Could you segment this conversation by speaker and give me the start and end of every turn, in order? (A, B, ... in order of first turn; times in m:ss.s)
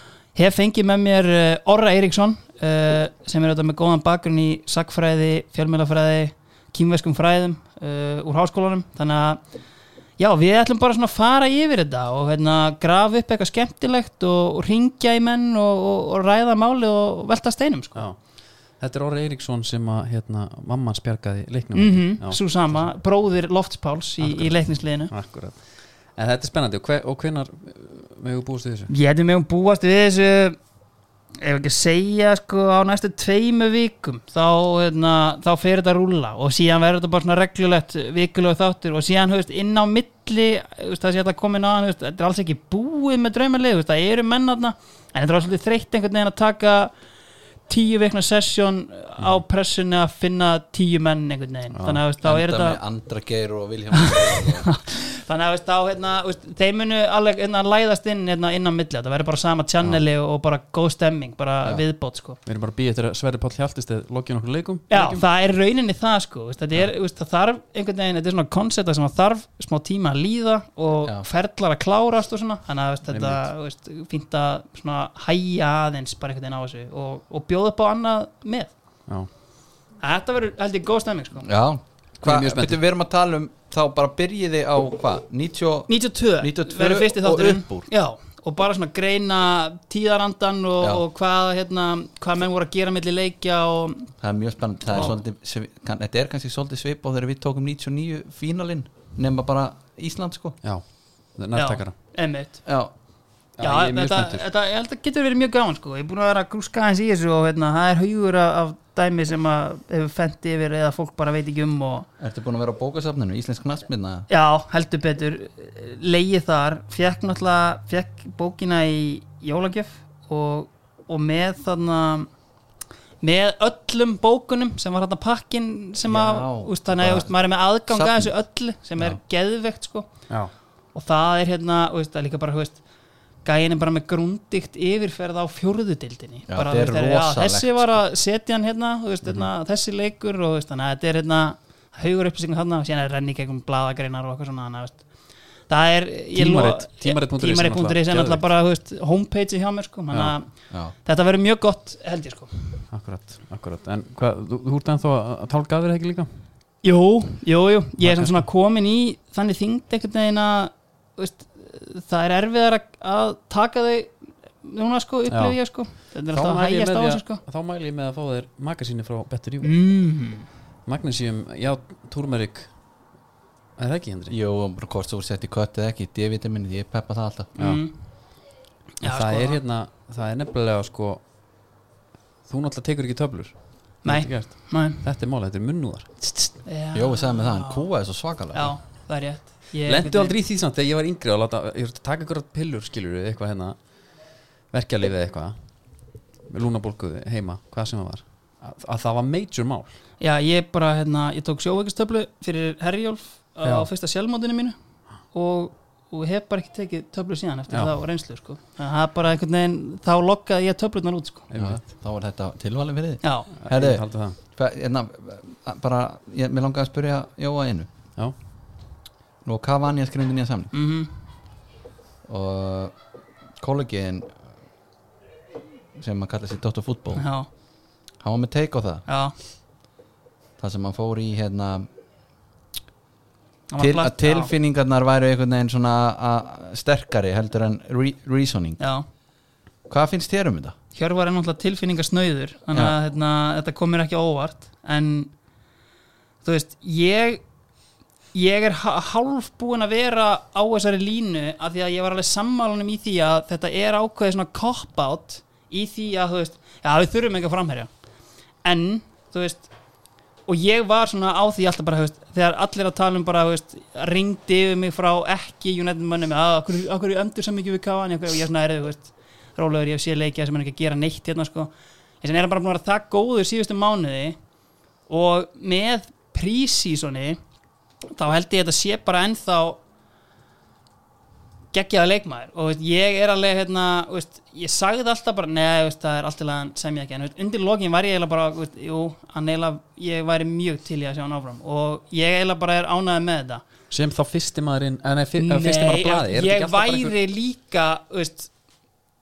0:00.4-0:09.4 A
0:10.2-0:18.0 A
0:18.8-0:22.9 B
0:21.7-0:25.1 A
0:24.2-0:25.6 B
0:26.2-0:28.9 B
0:28.9-0:30.6 A
0:31.4-0:46.9 A
0:47.7-0:52.8 A
0:51.7-0:52.0 B
0:52.2-0:54.7 C
0:53.9-1:02.4 A
1:02.5-1:05.2 B
1:04.9-1:18.7 A
1:13.1-1:13.5 B
1:20.0-1:21.5 A
1:21.4-1:27.9 C
1:22.2-1:22.8 B
1:25.9-1:34.1 A
1:34.2-1:40.6 C
1:41.4-1:41.9 B
1:41.6-1:42.6 A
1:42.7-1:42.9 C
1:43.6-1:44.4 B
1:43.6-1:52.1 A
1:52.2-1:54.2 C
1:54.3-2:02.3 A
2:03.2-2:10.1 A
2:06.0-2:07.3 C
2:07.9-2:08.3 C
2:10.9-2:12.8 A
2:13.4-2:25.0 A
2:16.5-2:17.9 C
2:25.7-2:30.5 A
2:26.4-2:28.4 B
2:31.0-2:32.5 A
2:32.9-2:36.3 B
2:36.8-2:47.4 A
2:38.0-2:38.5 B
2:45.3-2:45.6 B
2:46.3-2:49.7 B
2:49.6-2:50.5 A
2:50.9-2:52.7 B
2:53.8-2:54.4 B
2:54.3-2:57.5 C
2:57.6-2:57.9 A
2:59.0-2:59.6 A
2:59.0-3:01.2 B
3:02.5-3:06.5 B
3:04.0-3:05.0 A
3:06.6-3:07.8 A
3:06.9-3:08.7 C
3:08.5-3:10.4 A
3:09.9-3:13.8 B
3:14.7-3:15.6 B
3:16.5-3:19.9 B
3:20.2-3:24.8 A
3:25.3-3:31.5 A
3:31.5-3:31.8 B
3:31.6-3:37.9 C
3:33.2-3:33.5 A
3:33.6-3:34.4 B
3:39.4-3:40.7 C
3:40.7-3:41.1 A
3:42.2-3:42.9 C
3:43.6-3:44.3 C
3:46.0-3:47.2 C
3:47.2-3:47.5 A
3:48.2-3:49.0 C
3:49.1-3:49.3 A
3:50.6-3:51.9 C
3:53.7-3:54.5 A
3:53.8-3:58.8 C
3:58.8-3:59.0 A
3:59.9-4:00.8 C
4:00.9-4:05.3 A
4:06.4-4:07.4 A
4:08.3-4:17.9 A
4:18.6-4:19.7 A
4:20.5-4:31.7 A
4:32.2-4:34.4 A
4:35.1-4:37.4 A
4:38.1-4:39.8 A
4:41.7-4:53.6 A
4:53.9-4:57.2 B
4:55.4-4:58.5 A